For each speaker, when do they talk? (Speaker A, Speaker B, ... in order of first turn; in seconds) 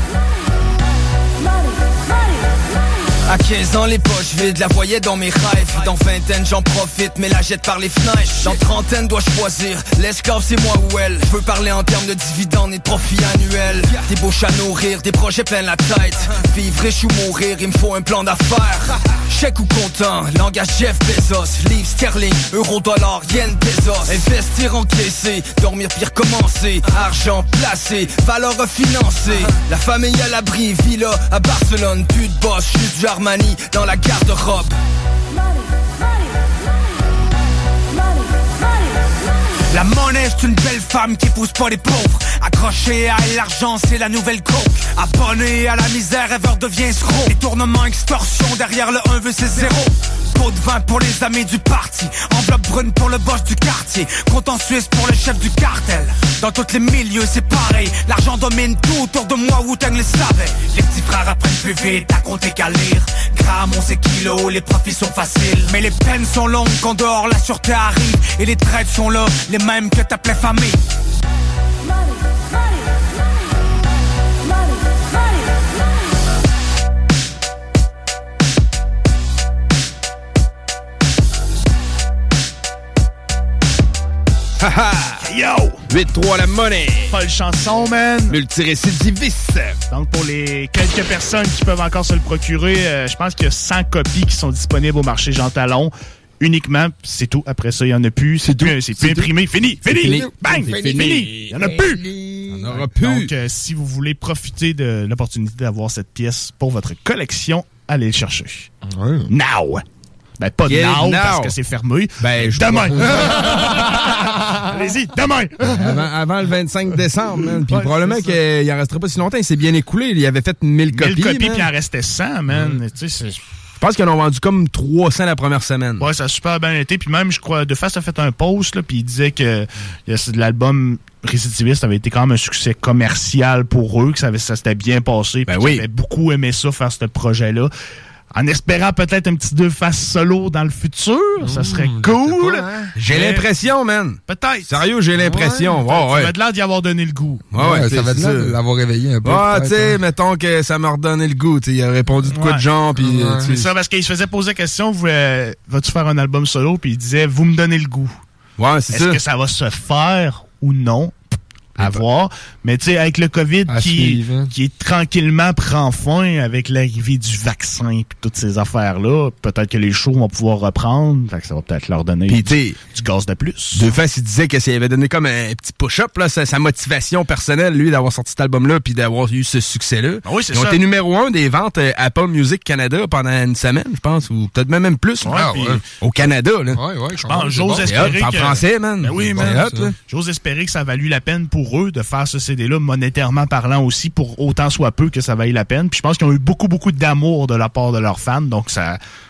Speaker A: 3.2-34.7
Speaker B: 39.7-70.8
Speaker C: 84.6-85.2, 85.9-87.1, 88.3-89.8, 100.6-101.3, 102.5-103.3, 110.7-111.5, 112.2-113.8, 115.7-121.7, 123.8-126.1, 135.5-135.8, 142.9-146.3, 147.5-148.5, 149.2-153.7, 158.6-159.2, 172.3-172.8, 173.7-185.4, 186.0-186.8, 187.8-189.9
Speaker D: 85.2-85.8, 87.1-88.4, 89.9-102.0, 103.0-108.7, 109.3-109.8, 110.4-115.8, 117.4-118.4, 120.9-123.4, 126.0-137.7, 138.3-143.5, 144.3-144.8, 145.8-147.4, 152.3-152.7, 153.4-158.1, 158.9-161.1, 161.8-173.9, 180.2-180.8, 185.2-185.8, 187.2-199.0
Speaker E: 98.4-99.3, 99.8-102.8, 108.9-109.3, 141.4-142.9, 145.2-145.8, 147.6-150.0, 153.0-153.6, 163.7-164.5, 185.2-185.8, 186.7-188.2, 189.3-189.9